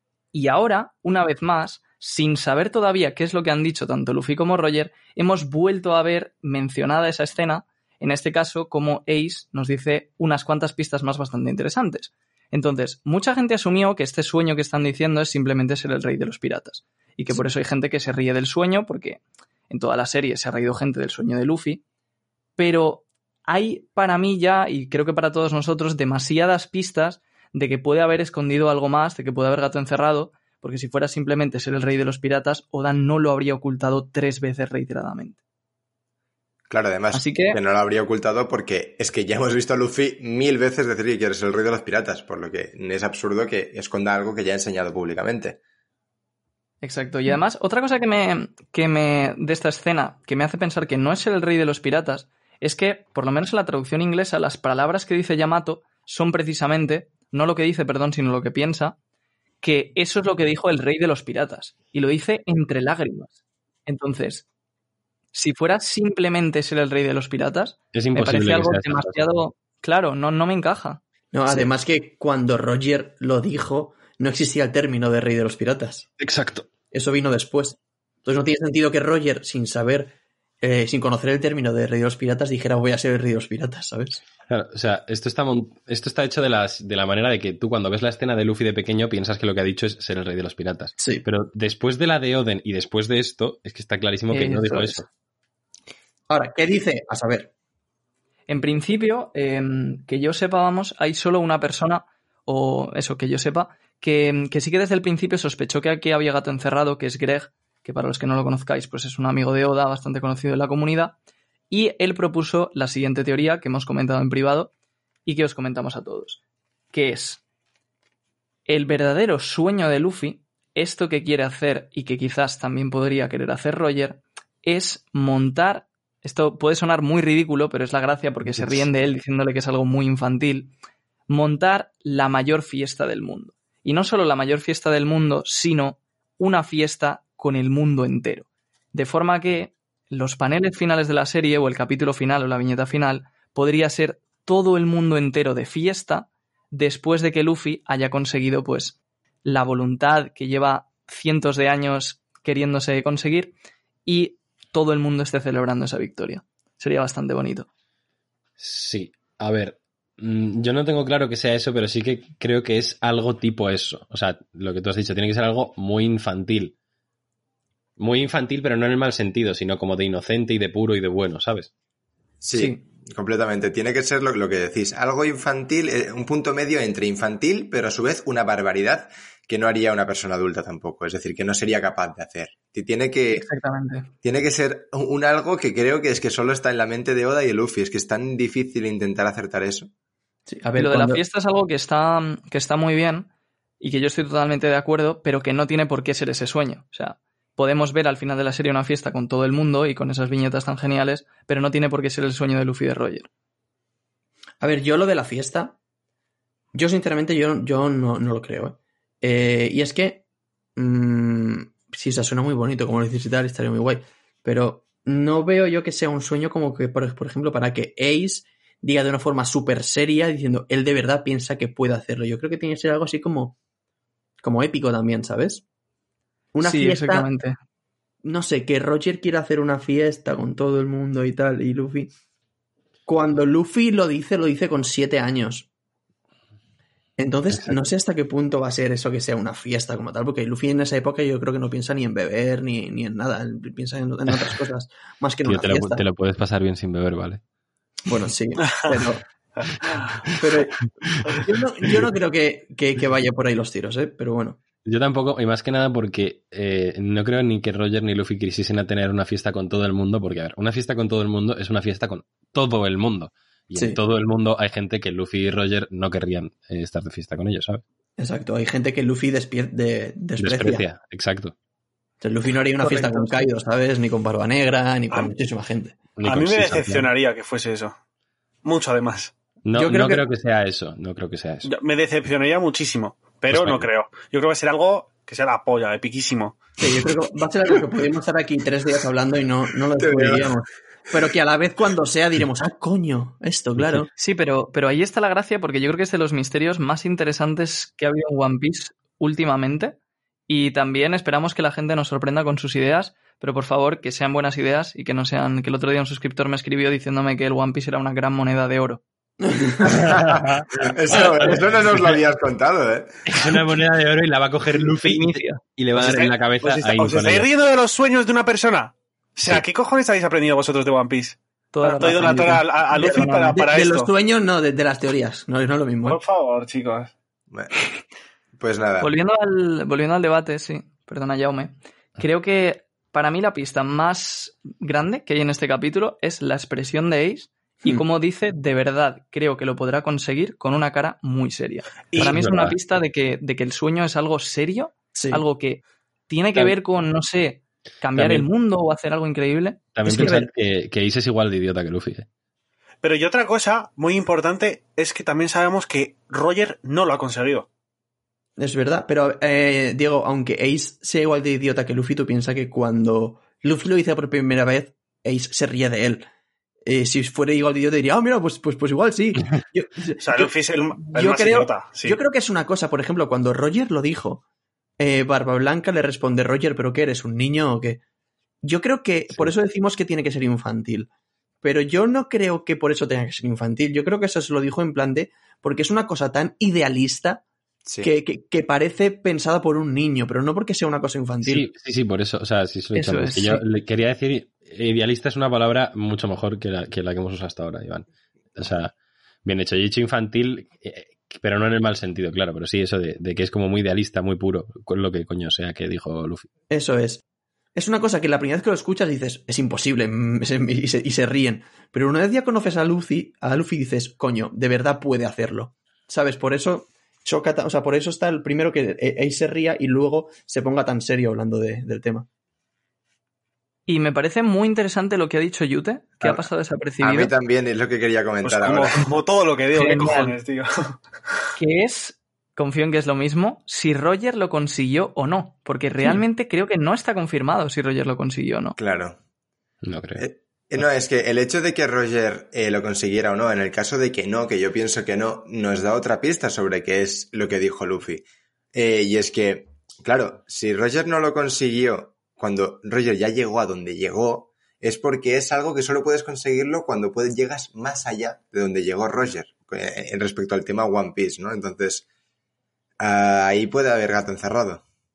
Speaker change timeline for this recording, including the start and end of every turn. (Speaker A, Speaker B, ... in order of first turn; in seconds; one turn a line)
Speaker A: 0.3-21.8
Speaker A: 22.6-35.4
Speaker B: 36.7-45.6
Speaker A: 37.1-37.6
Speaker A: 46.8-59.0
Speaker A: 59.6-64.5
Speaker A: 65.3-71.0
Speaker C: 67.9-69.2
Speaker D: 71.3-76.1
Speaker C: 76.2-76.7
Speaker D: 76.9-84.2
Speaker C: 84.5-95.0
Speaker D: 91.0-91.2
Speaker A: 94.3-95.0
Speaker D: 96.3-97.5
Speaker A: 98.5-111.2
Speaker A: 111.7-114.7
Speaker A: 115.3-116.4
Speaker A: 116.9-117.4
Speaker A: 118.7-130.7
Speaker A: 131.3-153.5
Speaker A: 154.1-157.7
Speaker C: 158.6-166.7
Speaker C: 168.0-171.7
Speaker B: 172.4-183.5
Speaker A: 172.5-172.8
Speaker A: 183.3-184.1
Speaker B: 184.2-189.9
Speaker D: 190.5-191.2
Speaker A: 190.8-193.3
Speaker A: 193.8-203.3
Speaker D: 204.6-205.8
Speaker D: 206.7-210.2
Speaker D: 210.8-223.6
Speaker D: 224.4-225.6
Speaker D: 226.5-227.3
Speaker A: 226.6-227.6
Speaker D: 228.2-232.1
Speaker D: 233.1-235.7
Speaker D: 237.2-246.0
Speaker C: 245.4-247.4
Speaker D: 248.1-249.2
Speaker D: 250.3-254.6
Speaker C: 251.1-251.4
Speaker C: 254.8-267.8
Speaker D: 268.2-270.9
Speaker C: 270.4-271.5
Speaker D: 272.2-276.0
Speaker A: 272.8-273.3
Speaker C: 276.2-277.1
Speaker E: 276.2-277.9
Speaker E: 278.6-279.3
Speaker C: 279.6-281.7
Speaker D: 279.8-280.2
Speaker E: 281.6-286.6
Speaker C: 283.5-283.9
Speaker D: 286.8-294.1
Speaker B: 290.0-290.5
Speaker A: 294.2-300.0
Speaker A: 300.5-309.0
Speaker D: 309.4-310.0
Speaker B: 309.9-313.2
Speaker C: 310.1-312.2
Speaker C: 313.3-317.5
Speaker A: 315.0-315.6
Speaker E: 315.9-324.1
Speaker A: 321.7-323.6
Speaker D: 323.1-326.2
Speaker E: 326.1-327.1
Speaker B: 328.6-329.1
Speaker A: 329.0-350.3
Speaker C: 342.2-342.8
Speaker D: 345.1-345.4
Speaker C: 348.2-348.5
Speaker C: 350.0-352.3
Speaker D: 350.1-350.5
Speaker E: 353.0-357.7
Speaker D: 358.6-366.3
Speaker D: 366.9-374.4
Speaker E: 370.2-372.2
Speaker D: 375.0-378.0
Speaker D: 378.6-381.1
Speaker D: 381.6-387.4
Speaker D: 388.0-391.6
Speaker C: 391.4-398.9
Speaker A: 392.9-393.6
Speaker C: 399.4-406.5
Speaker D: 406.7-407.2
Speaker D: 407.8-422.3
Speaker A: 423.9-427.3
Speaker B: 427.0-429.0
Speaker E: 428.4-431.0
Speaker A: 429.7-430.4
Speaker A: 431.6-438.8
Speaker B: 438.8-439.2
Speaker C: 439.8-440.3
Speaker B: 440.2-462.1
Speaker B: 463.0-464.8